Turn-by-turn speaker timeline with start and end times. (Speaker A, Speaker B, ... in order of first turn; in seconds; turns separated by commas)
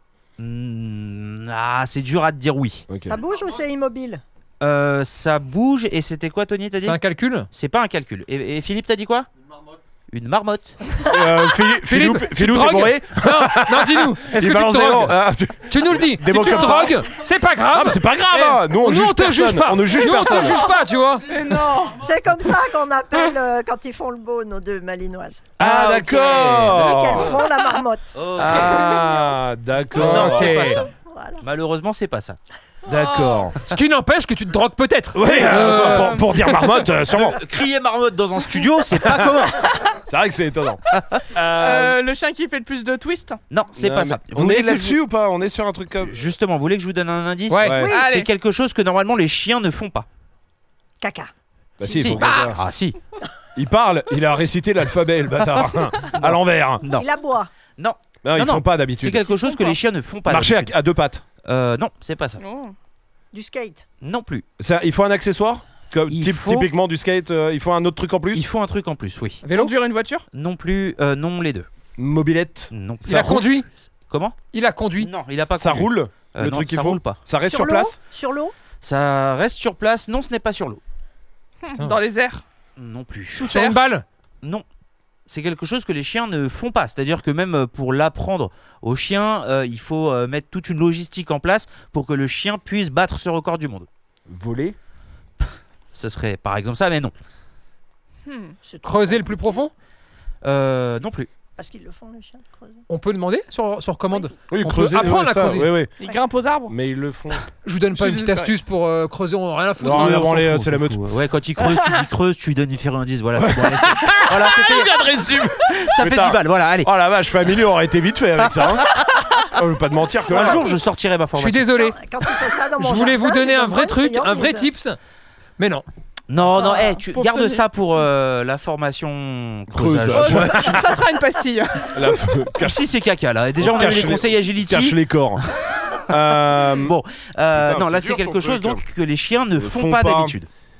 Speaker A: 0.4-2.9, Speaker B: 2.9-3.2, Speaker C: 3.0-4.2, Speaker A: 4.6-7.0, Speaker D: 6.8-7.5, Speaker A: 7.5-9.3, Speaker A: 10.1-10.7, Speaker B: 11.1-17.1, Speaker D: 11.8-21.3, Speaker B: 17.7-20.6, Speaker E: 20.3-20.8, Speaker E: 21.3-22.0, Speaker C: 21.9-25.5, Speaker A: 25.6-26.8, Speaker B: 25.6-27.4, Speaker C: 26.1-29.4, Speaker A: 28.1-29.1, Speaker B: 28.4-30.8, Speaker D: 29.9-30.8, Speaker A: 30.1-30.9, Speaker C: 30.8-31.4, Speaker A: 31.4-32.4, Speaker B: 32.9-33.6, Speaker E: 32.9-33.5, Speaker D: 33.6-36.5, Speaker B: 35.1-37.4, Speaker E: 35.6-36.3, Speaker A: 37.1-39.7, Speaker B: 39.0-42.0, Speaker E: 41.6-43.4, Speaker A: 43.5-45.0, Speaker B: 43.8-46.2, Speaker A: 46.0-50.0, Speaker D: 47.5-47.8, Speaker B: 47.6-47.9, Speaker C: 47.8-48.1, Speaker E: 47.9-48.3, Speaker C: 51.0-51.3, Speaker B: 51.8-52.6, Speaker A: 51.8-53.0, Speaker B: 53.5-56.8, Speaker A: 56.8-57.1, Speaker C: 56.9-57.5, Speaker A: 57.8-60.7, Speaker B: 58.2-59.2, Speaker E: 59.3-59.8, Speaker B: 60.2-61.2, Speaker A: 61.4-62.4, Speaker E: 62.4-62.7, Speaker C: 63.3-63.9, Speaker A: 64.0-64.5, Speaker B: 64.6-68.5, Speaker A: 66.1-66.7, Speaker A: 68.3-69.4, Speaker D: 69.4-69.7, Speaker E: 69.5-70.2, Speaker A: 70.3-71.7, Speaker B: 72.0-73.4, Speaker A: 72.7-73.6, Speaker D: 73.0-73.7, Speaker A: 74.1-74.4, Speaker D: 74.5-75.1, Speaker A: 75.0-77.2, Speaker B: 75.5-78.0, Speaker C: 77.4-78.5, Speaker A: 78.8-80.8, Speaker E: 81.6-82.4, Speaker A: 82.8-83.5, Speaker D: 83.4-84.0, Speaker E: 83.4-83.8, Speaker A: 85.3-93.9, Speaker B: 94.3-94.8, Speaker A: 95.4-97.1, Speaker E: 98.2-98.6, Speaker C: 98.6-99.6, Speaker D: 98.8-99.7, Speaker A: 100.4-101.3, Speaker C: 101.6-102.8, Speaker D: 102.9-105.8, Speaker B: 104.5-105.9, Speaker E: 106.0-106.8, Speaker B: 106.7-107.4, Speaker D: 107.6-111.0, Speaker E: 108.0-108.5, Speaker B: 109.8-111.0, Speaker A: 111.0-114.9, Speaker E: 111.7-112.0, Speaker B: 113.4-118.9, Speaker A: 115.7-116.9, Speaker B: 119.5-120.7, Speaker A: 120.3-121.7, Speaker C: 120.4-120.7, Speaker D: 121.4-121.9, Speaker C: 121.7-124.7, Speaker D: 122.8-125.0, Speaker D: 125.6-125.8, Speaker A: 126.3-130.8, Speaker E: 126.6-127.6, Speaker B: 129.7-131.0, Speaker E: 130.1-132.2, Speaker B: 131.9-132.9, Speaker A: 132.6-135.0, Speaker B: 133.6-135.4, Speaker B: 136.0-136.9, Speaker A: 136.7-140.5, Speaker B: 137.5-138.8, Speaker B: 139.6-140.3